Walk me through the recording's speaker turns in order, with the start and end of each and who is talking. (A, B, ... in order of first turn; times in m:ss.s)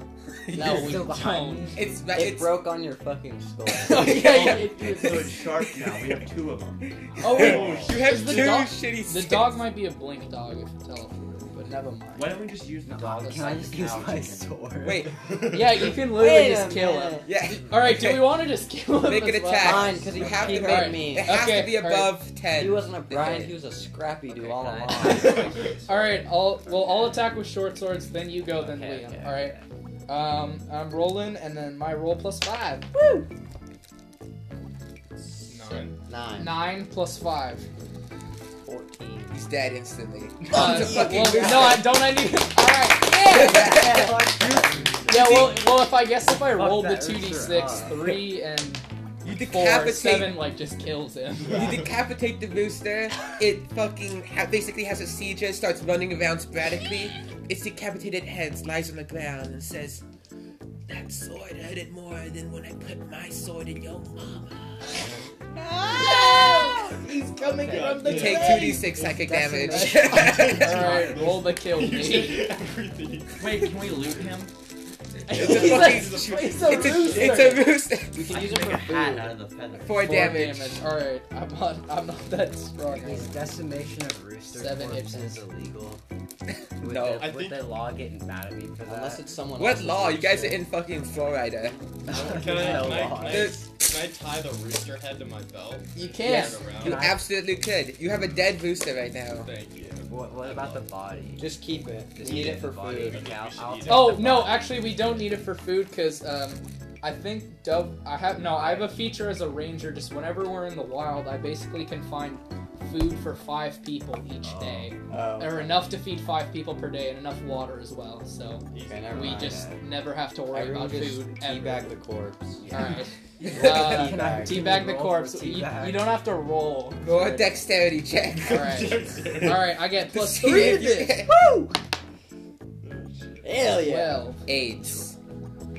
0:00.5-0:00.9 A
0:00.5-0:01.1 B
0:00.5-0:01.7 C
0:00.7-0:01.8 D
0:01.7-0:02.6 A
0:02.1-0:04.3 B
0:03.8-0:05.4 C
0:03.8-0:06.2 A
0:04.1-0:07.9 E
0:07.2-0:09.6 A
0:07.2-0:12.5 C
0:07.4-0:07.9 F
0:07.4-0:07.9 D
0:12.1-0:14.6 E
0:12.8-0:15.2 D
0:14.8-0:15.3 A
0:15.5-0:22.2 C
0:16.0-0:17.3 B
0:17.2-0:18.4 A
0:19.0-0:23.5 A
0:19.6-0:21.5 B
0:20.2-0:20.5 F
0:22.5-0:25.5 B
0:24.3-0:27.2 D
0:25.0-0:33.2 C
0:28.5-0:29.6 D
0:35.4-0:36.0 F
0:35.6-0:37.6 C
0:36.1-0:36.6 B
0:38.6-0:39.4 B
0:39.3-0:42.0 A
0:40.5-0:44.1 C
0:40.5-0:41.9 B
0:43.3-0:44.3 A
0:43.3-0:44.6 B
0:45.0-0:45.7 A
0:45.1-0:48.8 C
0:46.6-0:47.9 E
0:47.3-0:47.9 B
0:49.2-0:50.4 A
0:49.5-0:51.8 C
0:51.5-1:00.0 A
0:51.5-0:51.8 F
1:00.9-1:04.9 A
1:05.5-1:07.0 B
1:05.9-1:08.9 C
1:07.5-1:08.7 F
1:07.5-1:08.1 D
1:08.0-1:11.0 A
1:08.9-1:10.8 D
1:09.6-1:12.5 C
1:10.1-1:14.3 F
1:13.4-1:14.5 E
1:15.3-1:17.8 C
1:15.3-1:17.6 F
1:15.3-1:18.5 A
1:18.1-1:19.4 B
1:18.2-1:20.1 E
1:19.8-1:20.8 A
1:20.0-1:23.4 C
1:22.9-1:26.0 D
1:24.5-1:25.4 C
1:26.8-1:27.3 A
1:26.8-1:29.2 D
1:27.2-1:27.7 F
1:28.8-1:30.6 B
1:29.5-1:31.8 A
1:32.1-1:37.1 F
1:32.1-1:33.4 D
1:32.1-1:33.4 B
1:33.2-1:33.7 A
1:35.9-1:36.6 C
1:36.2-1:36.5 B
1:36.8-1:37.2 D
1:36.8-1:39.5 A
1:39.4-1:40.9 F
1:40.1-1:41.5 D
1:41.4-1:43.3 B
1:42.1-1:45.3 D
1:42.5-1:44.5 F
1:43.8-2:01.9 C
1:54.4-1:55.0 D
1:55.1-1:55.8 B
1:58.7-1:59.5 F
1:58.8-1:59.6 B
1:59.3-1:59.8 D
2:00.5-2:02.6 B
2:02.6-2:03.0 D
2:02.7-2:07.0 C
2:03.4-2:04.8 B
2:03.4-2:03.8 A
2:03.6-2:06.2 D
2:07.0-2:09.1 A
2:07.1-2:07.5 B
2:08.4-2:09.8 F
2:08.4-2:11.1 C
2:10.1-2:11.4 A
2:10.4-2:11.7 B
2:12.8-2:13.7 F
2:13.4-2:14.3 B
2:13.8-2:14.4 C
2:14.4-2:15.2 A